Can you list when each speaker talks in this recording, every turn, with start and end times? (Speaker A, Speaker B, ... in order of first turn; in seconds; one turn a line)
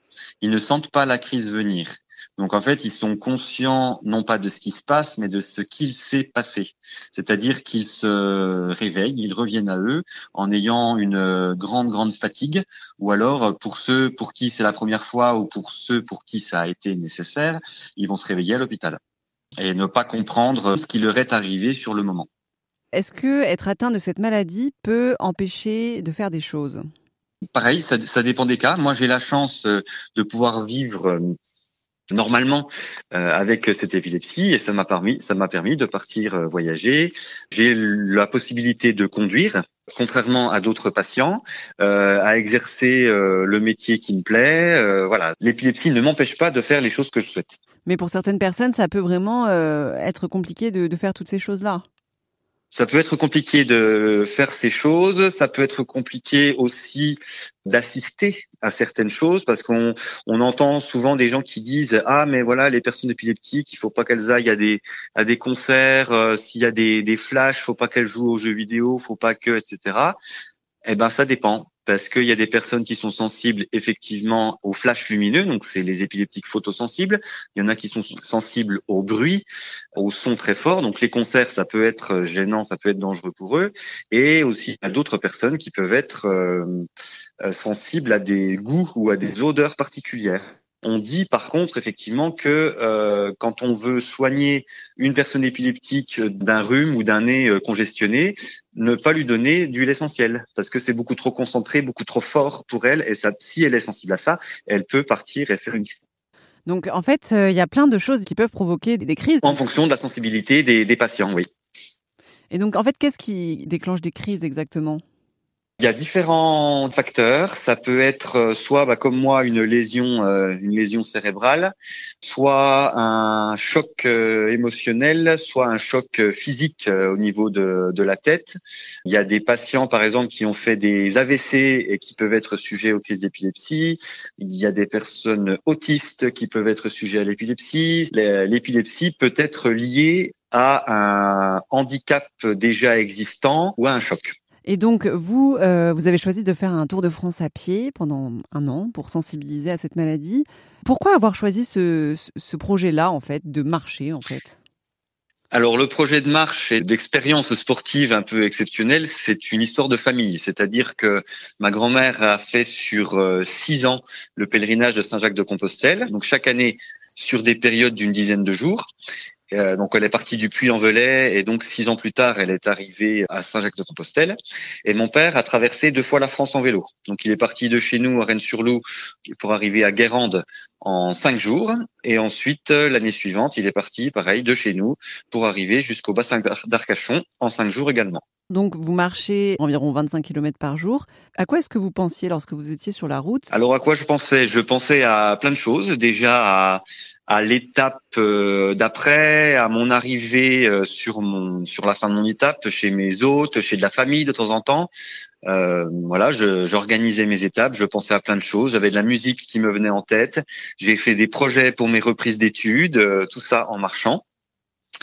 Speaker A: 0.4-19.0
Speaker A: 19.6-22.3
Speaker B: 22.9-26.8
Speaker A: 27.5-31.3
Speaker A: 32.1-47.6
Speaker B: 47.9-51.8
Speaker A: 52.7-70.2
Speaker A: 70.8-86.9
Speaker A: 87.4-105.9
Speaker B: 106.7-109.6
Speaker A: 109.4-111.5
Speaker B: 112.5-115.0
Speaker A: 115.8-144.3
Speaker B: 144.7-154.6
Speaker A: 155.5-168.9
Speaker A: 169.5-188.2
Speaker B: 188.5-193.5
Speaker A: 193.5-204.9
Speaker A: 205.5-214.2